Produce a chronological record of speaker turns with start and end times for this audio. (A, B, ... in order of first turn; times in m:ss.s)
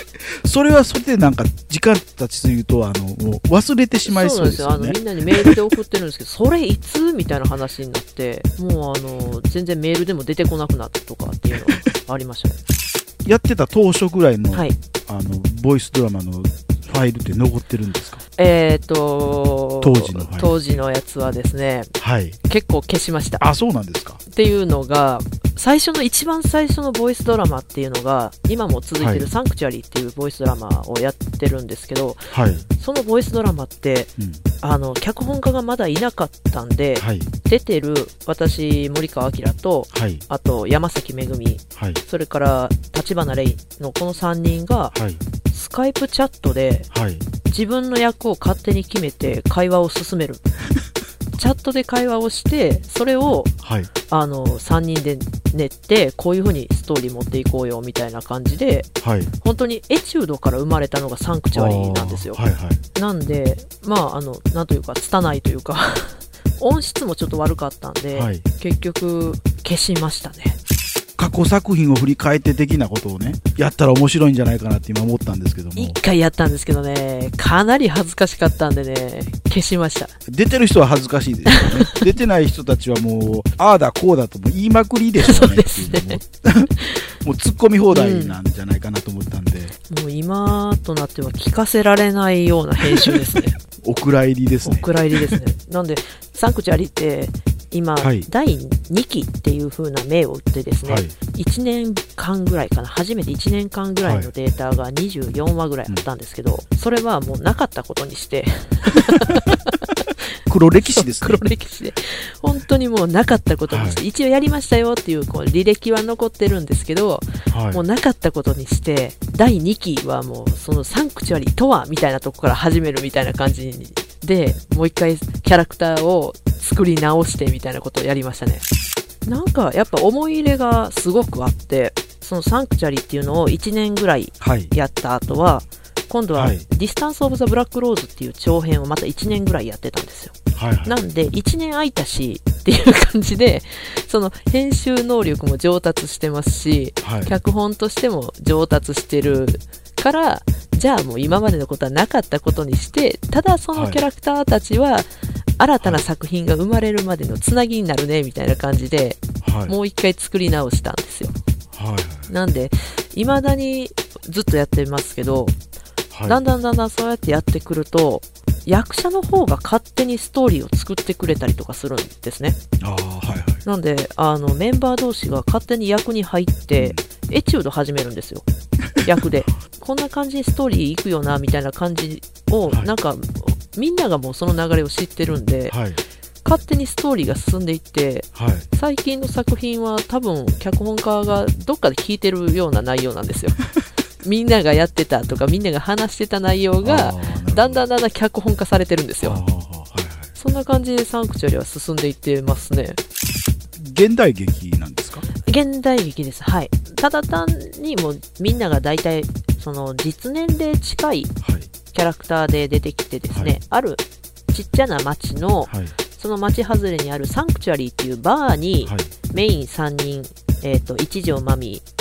0:00.4-0:05.6 A
0:04.1-0:12.6 B
0:13.2-0:18.2 A
0:18.4-0:21.9 B
0:19.8-0:20.7 A
0:22.0-0:22.4 A
0:22.5-0:23.4 B
0:23.4-0:24.2 A
0:24.3-0:32.2 B
0:29.0-0:29.3 A
0:32.3-0:32.7 A
0:32.8-0:45.0 B
0:34.2-0:34.4 A
0:37.0-0:37.3 A
0:39.9-0:40.2 A
0:41.8-0:42.0 A
0:44.9-0:45.2 A
0:45.5-0:46.9 B
0:46.9-0:47.2 A
0:47.4-0:50.4 B
0:51.4-0:53.5 B
0:53.6-0:53.9 A
0:54.1-1:02.4 B
0:59.0-0:59.3 A
1:01.5-1:02.8 A
1:03.0-1:10.6 B
1:08.1-1:08.4 A
1:11.2-1:16.0 A
1:15.8-1:20.1 B
1:20.3-1:26.7 A
1:21.5-1:21.9 B
1:25.2-1:26.2 B
1:27.2-1:29.7 A
1:27.9-1:28.4 B
1:29.9-1:33.5 B
1:32.9-1:33.1 A
1:33.8-1:35.4 A
1:34.6-1:49.7 B
1:38.0-1:38.3 A
1:40.8-1:41.2 A
1:44.0-1:44.3 A
1:50.5-1:51.5 A
1:50.8-2:08.6 B
1:53.7-1:54.0 A
1:57.5-1:57.8 A
2:09.2-2:35.1 B
2:14.4-2:14.7 A
2:16.3-2:16.6 A
2:20.5-2:21.0 A
2:27.0-2:27.3 A
2:33.7-2:34.0 A
2:35.6-2:41.4 B
2:39.4-2:39.8 A
2:41.7-2:42.3 A
2:42.3-2:45.6 B
2:46.1-2:46.4 A
2:46.3-2:52.6 B
2:52.8-2:53.6 A
2:53.6-2:58.5 B
2:56.8-2:57.0 A
2:59.0-3:05.8 B
3:05.7-3:06.0 A
3:06.4-3:13.6 B
3:08.4-3:08.7 A
3:14.2-3:19.4 B
3:16.8-3:17.8 A
3:19.2-3:20.3 A
3:20.4-3:23.0 B
3:23.8-3:25.3 A
3:25.5-3:31.3 B
3:31.4-3:31.7 A
3:31.9-3:41.8 B
3:33.3-3:33.6 A
3:35.7-3:35.9 A
3:38.8-3:39.1 A